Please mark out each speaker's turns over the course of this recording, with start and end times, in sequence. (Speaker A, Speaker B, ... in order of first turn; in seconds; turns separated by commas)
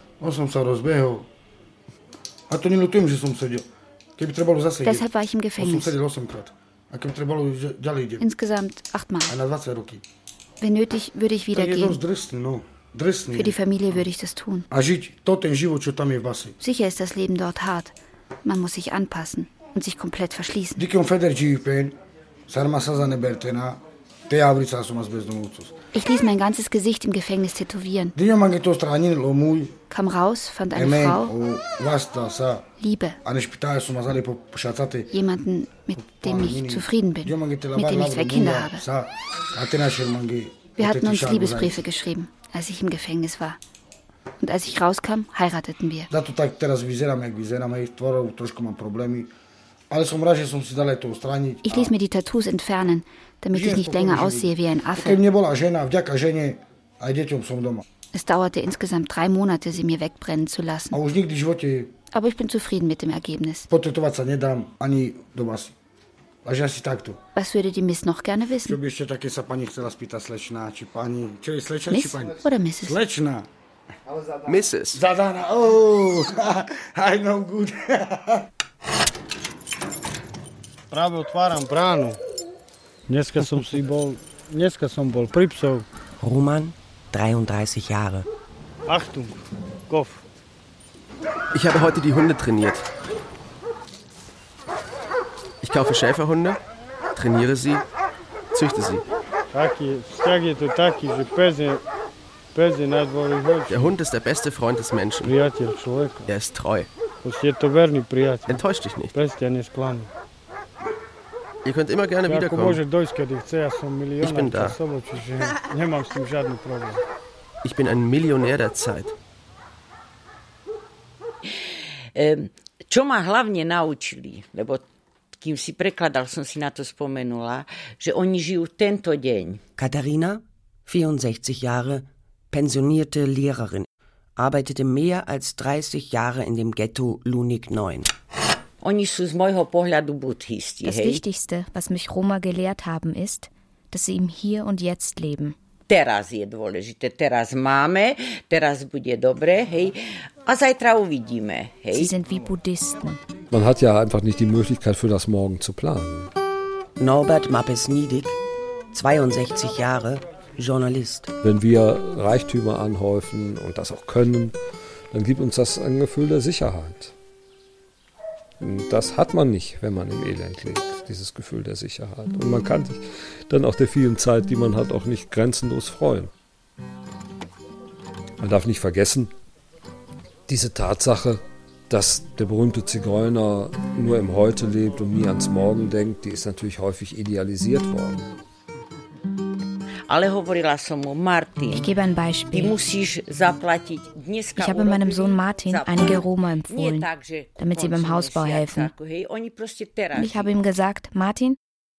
Speaker A: 0.2-1.2, Speaker A: 2.5-3.6, Speaker A: 4.2-8.2, Speaker B: 4.8-6.0, Speaker B: 8.2-9.4, Speaker A: 9.2-10.0, Speaker B: 10.6-12.0, Speaker A: 11.5-13.6, Speaker B: 13.3-14.7, Speaker A: 14.7-16.5, Speaker B: 16.6-20.8, Speaker A: 20.8-21.9, Speaker A: 22.5-25.7, Speaker B: 25.9-28.1, Speaker A: 28.1-29.7, Speaker B: 29.9-31.3, Speaker A: 30.7-32.6, Speaker B: 32.8-33.2, Speaker A: 33.2-35.1, Speaker B: 35.1-38.8, Speaker A: 36.0-41.8, Speaker B: 40.8-43.6, Speaker B: 44.4-46.1, Speaker A: 46.1-49.3, Speaker A: 49.9-51.9, Speaker B: 51.6-55.2, Speaker A: 53.5-57.8, Speaker B: 58.1-61.0, Speaker A: 60.9-61.9, Speaker B: 62.1-63.7, Speaker A: 63.7-65.7, Speaker A: 66.4-67.2, Speaker B: 67.3-68.8, Speaker A: 68.6-73.5, Speaker B: 71.9-73.0, Speaker C: 74.5-75.0, Speaker A: 74.9-78.4, Speaker D: 80.9-82.2, Speaker D: 83.1-85.8, Speaker E: 86.2-88.2, Speaker D: 88.9-89.4, Speaker D: 89.9-90.2, Speaker C: 91.5-92.8, Speaker C: 95.6-96.6, Speaker C: 97.2-97.8, Speaker C: 98.5-99.0, Speaker D: 99.5-101.8, Speaker D: 102.5-103.9, Speaker C: 103.7-105.3, Speaker D: 105.2-106.3, Speaker C: 106.2-106.9, Speaker D: 107.2-108.6, Speaker C: 108.5-109.1, Speaker D: 109.1-110.1, Speaker C: 111.6-112.8, Speaker D: 112.2-117.0, Speaker C: 114.2-114.8, Speaker C: 117.6-119.1, Speaker F: 122.1-124.8, Speaker F: 125.4-129.6, Speaker E: 129.8-138.1, Speaker F: 138.8-141.2, Speaker G: 140.8-145.6, Speaker F: 145.9-152.1, Speaker G: 151.9-153.2, Speaker H: 153.5-156.3, Speaker E: 157.0-158.3, Speaker E: 158.9-161.3, Speaker H: 161.4-164.6, Speaker H: 165.1-167.1, Speaker H: 168.6-176.3, Speaker H: 178.4-179.3, Speaker H: 180.5-188.3, Speaker F: 190.1-191.9, Speaker G: 191.7-192.7, Speaker F: 192.5-200.5, Speaker G: 194.6-198.9, Speaker G: 200.1-201.6